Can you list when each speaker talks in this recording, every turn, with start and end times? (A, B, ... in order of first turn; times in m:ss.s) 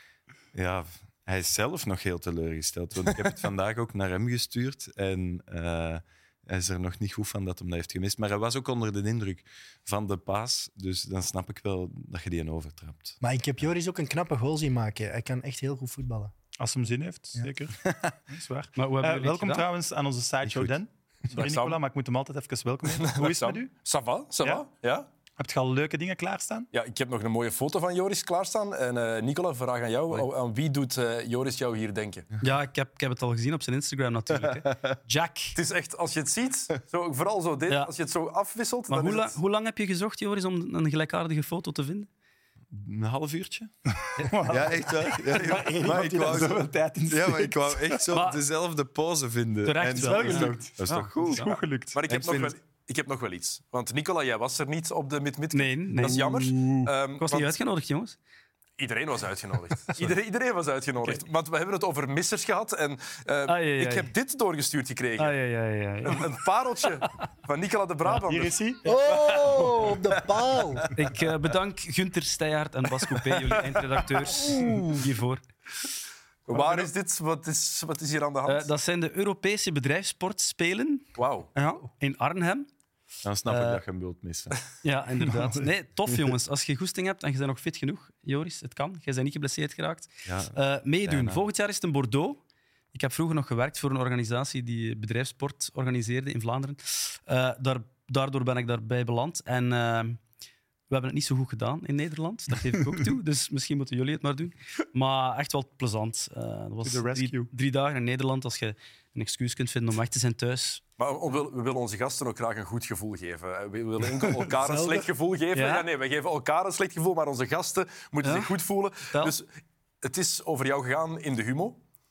0:00.5-0:13.7 A
0:13.2-0:16.3 B
0:16.6-0:23.7 C
0:18.8-0:19.6 D
0:20.4-0:20.8 A
0:21.3-0:21.8 E
0:22.9-0:25.1 E
0:25.4-0:26.7 C
0:26.7-0:32.3 E
0:32.4-0:35.6 D
0:34.5-0:34.9 A
0:35.6-0:39.4 E
0:38.9-0:42.1 D
0:42.7-0:43.7 A
0:44.0-0:48.0 C
0:44.4-0:51.5 A
0:48.1-0:48.4 D
0:49.7-0:50.6 D
0:49.9-0:52.0 C
0:51.9-0:57.6 E
0:52.1-0:52.6 A
0:55.5-0:56.2 D
0:56.0-0:56.9 C
0:57.2-0:58.2 D
0:58.8-1:05.4 E
1:03.5-1:04.1 D
1:05.2-1:06.3 D
1:06.0-1:08.6 E
1:08.1-1:09.3 C
1:08.8-1:10.9 B
1:10.9-1:15.4 D
1:14.4-1:15.0 B
1:16.5-1:18.7 E
1:16.5-1:16.9 D
1:18.5-1:22.7 D
1:21.2-1:21.5 E
1:23.2-1:24.6 A
1:23.5-1:23.8 D
1:24.8-1:32.4 D
1:25.3-1:25.6 C
1:30.3-1:31.4 A
1:32.9-1:40.2 D
1:40.9-1:50.8 D
1:46.8-1:47.5 C
1:51.0-1:59.5 E
1:54.6-1:55.1 B
1:55.5-1:55.9 D
1:58.2-1:58.5 D
2:00.0-2:01.8 E